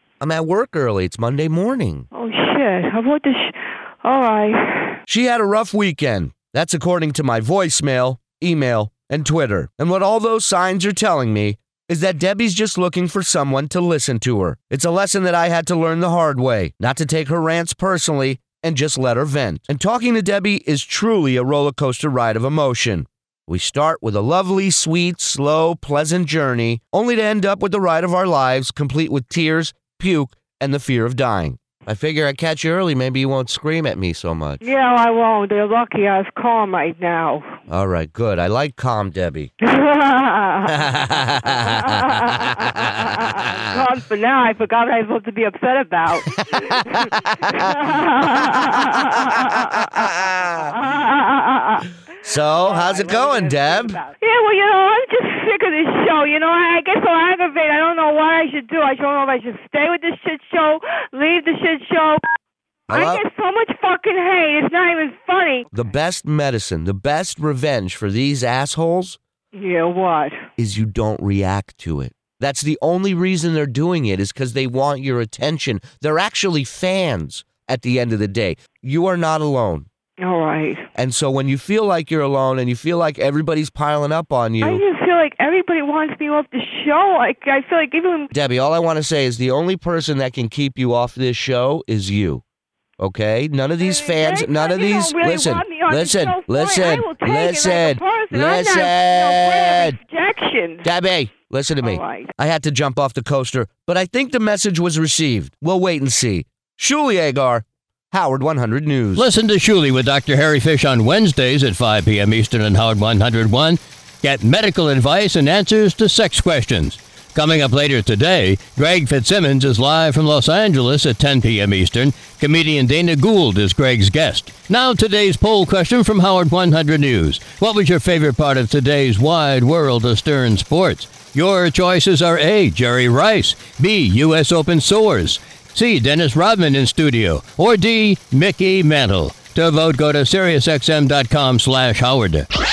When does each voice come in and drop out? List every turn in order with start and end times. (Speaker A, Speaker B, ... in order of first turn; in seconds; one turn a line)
Speaker A: 0.2-2.1
Speaker B: 2.1-5.0
Speaker A: 5.1-34.6
Speaker B: 34.6-37.5
Speaker A: 37.7-39.5
Speaker B: 39.6-40.9
Speaker A: 40.6-42.4
Speaker B: 41.5-51.9
Speaker A: 46.4-47.0
Speaker A: 50.0-50.7
Speaker A: 52.2-54.0
Speaker B: 52.5-62.2
Speaker A: 62.9-63.2
Speaker B: 62.9-65.7
Speaker A: 65.7-69.2
Speaker B: 69.5-70.4
Speaker A: 70.6-79.9
Speaker B: 80.2-80.8
Speaker A: 80.9-84.8
Speaker B: 84.6-88.3
Speaker A: 88.3-92.4
Speaker A: 93.0-100.0
Speaker B: 93.8-100.9
Speaker A: 100.8-109.3
Speaker B: 101.8-102.3
Speaker C: 109.1-142.5